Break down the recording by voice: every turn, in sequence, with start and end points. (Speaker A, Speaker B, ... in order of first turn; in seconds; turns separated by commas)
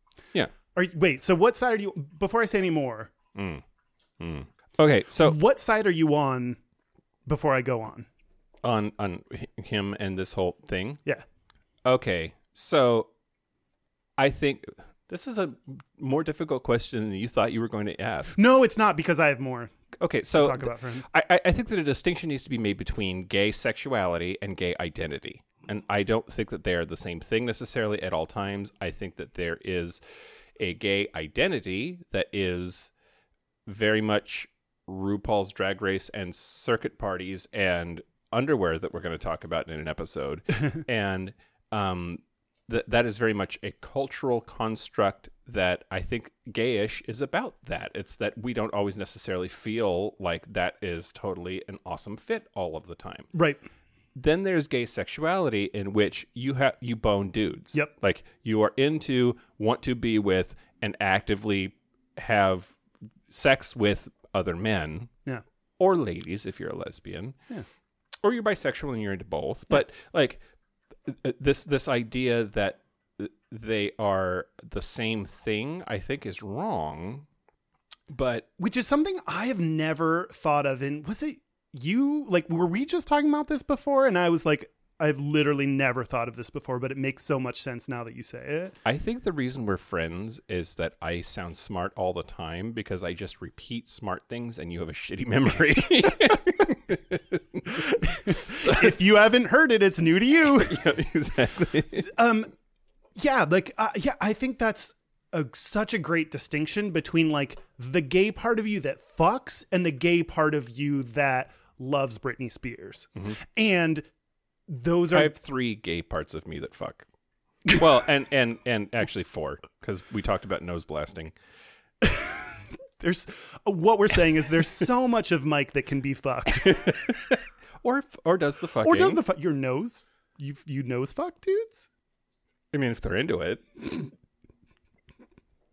Speaker A: 0.7-3.1, Speaker B: 3.3-3.6, Speaker B: 4.2-5.4, Speaker A: 5.2-6.6, Speaker A: 7.2-8.1, Speaker B: 8.6-11.0, Speaker B: 11.8-13.1, Speaker B: 14.2-18.4, Speaker A: 18.3-19.7, Speaker B: 20.0-30.0, Speaker A: 20.3-21.1, Speaker B: 30.6-32.9, Speaker B: 33.6-53.3, Speaker A: 53.3-53.6, Speaker B: 54.1-62.7, Speaker B: 63.3-65.1, Speaker B: 65.8-67.3, Speaker B: 68.2-70.4, Speaker B: 71.1-77.2, Speaker B: 78.1-78.5, Speaker A: 78.6-88.7, Speaker B: 88.8-99.0, Speaker A: 97.8-100.9, Speaker B: 100.5-102.1, Speaker A: 101.9-102.5, Speaker A: 103.2-114.0, Speaker A: 114.7-115.4, Speaker B: 115.1-117.0, Speaker B: 117.7-121.3, Speaker A: 122.0-122.5, Speaker A: 123.0-127.0, Speaker B: 126.5-129.2, Speaker A: 128.8-131.9, Speaker B: 132.7-134.1